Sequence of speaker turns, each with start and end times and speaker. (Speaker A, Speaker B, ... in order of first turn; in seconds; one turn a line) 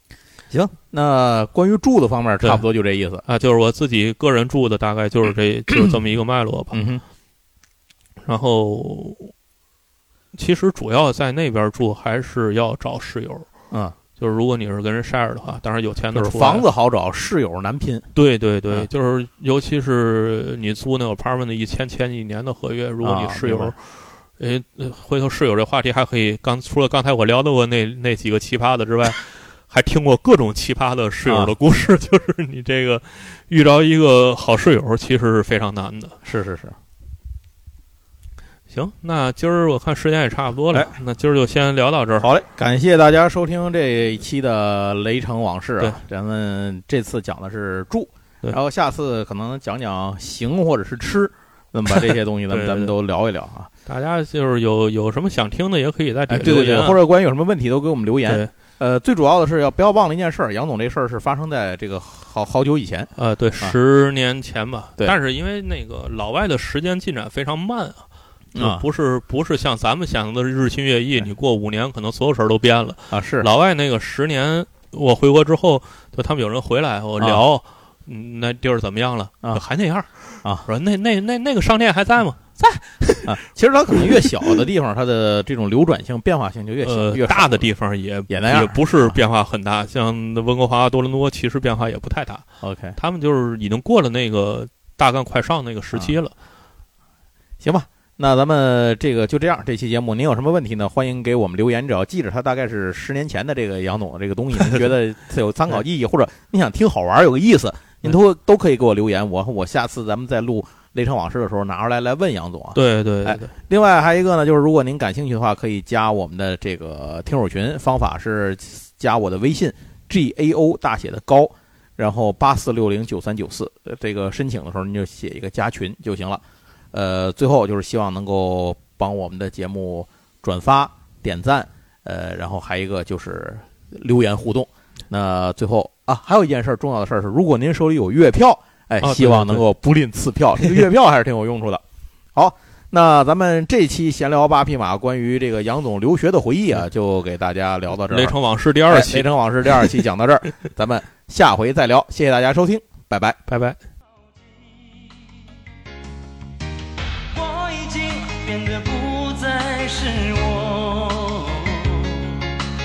Speaker A: 0.5-3.2
Speaker B: 3.2-6.8
Speaker A: 6.7-7.0
Speaker B: 8.2-9.3
Speaker B: 10.3-13.5
Speaker A: 13.7-14.0
Speaker B: 14.2-16.7
Speaker A: 16.1-18.1
Speaker B: 18.1-23.8
Speaker A: 23.0-23.7
Speaker B: 24.4-36.2
Speaker A: 31.3-31.5
Speaker A: 36.2-36.8
Speaker B: 38.7-42.3
Speaker A: 42.2-53.7
Speaker B: 51.9-52.9
Speaker B: 53.9-57.0
Speaker A: 56.3-63.8
Speaker B: 58.3-58.5
Speaker B: 63.2-83.4
Speaker A: 68.5-68.9
Speaker A: 73.1-73.5
Speaker A: 77.2-77.5
Speaker A: 83.3-87.7
Speaker B: 83.9-84.5
Speaker B: 86.8-92.5
Speaker A: 88.3-89.2
Speaker A: 92.6-93.0
Speaker B: 93.0-96.3
Speaker A: 97.6-141.8
Speaker B: 112.8-113.5
Speaker B: 139.0-139.7
Speaker A: 142.3-148.4
Speaker B: 148.1-149.9
Speaker A: 148.9-153.4
Speaker B: 153.5-153.8
Speaker C: 157.3-162.5